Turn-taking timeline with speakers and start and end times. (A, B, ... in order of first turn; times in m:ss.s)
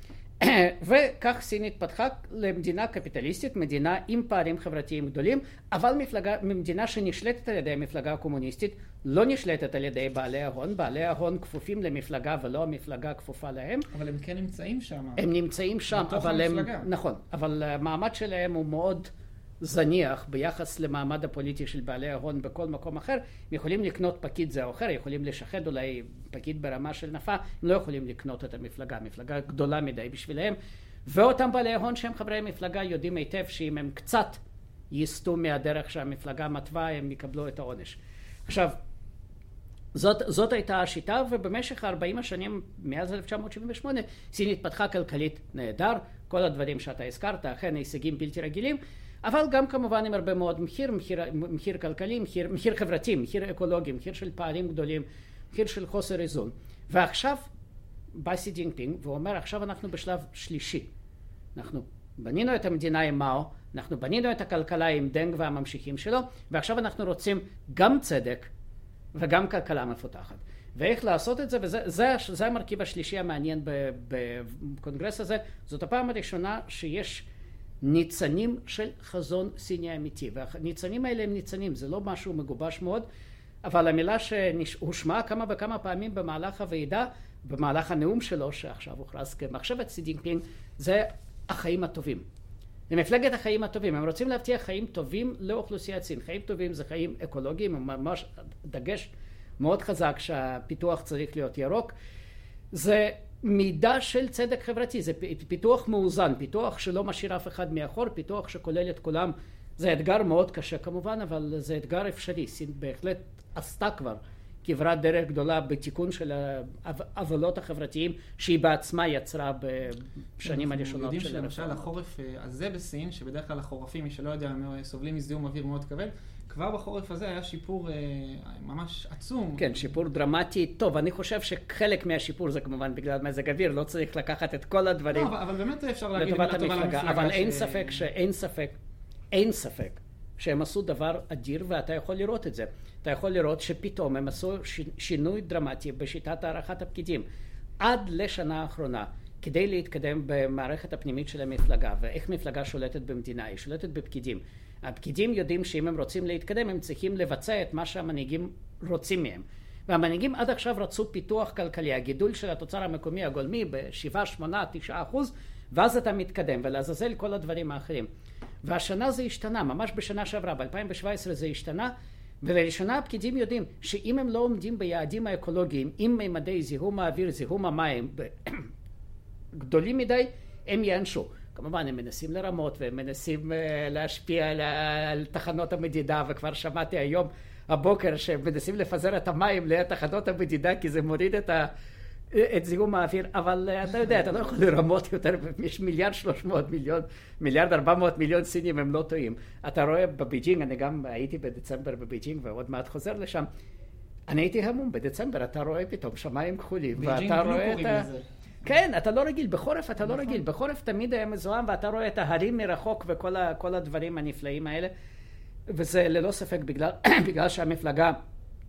0:00.4-0:13.9 A
0:13.9-0:15.3 B
0:15.2-0:38.8 A
0:15.9-0:16.9 B
0:39.9-0:57.5 A
0:58.1-1:00.9 A
1:01.6-1:08.5 A
1:09.1-1:17.2 A
1:17.8-1:23.0 A
1:23.6-1:32.2 A
1:32.9-1:41.9 A
1:42.7-2:01.8 A
2:00.4-2:09.9 B
2:09.6-2:15.3 A
2:15.1-2:18.0 B
2:16.2-2:18.8 A
2:19.3-2:27.2 A
2:27.8-2:48.1 A
2:48.6-2:58.7 A
2:59.5-3:11.7 A
3:12.3-3:23.5 A
3:24.3-3:28.1 A
3:26.9-3:28.7 B
3:28.6-3:34.9 A
3:30.0-3:30.4 B
3:35.7-3:38.2 A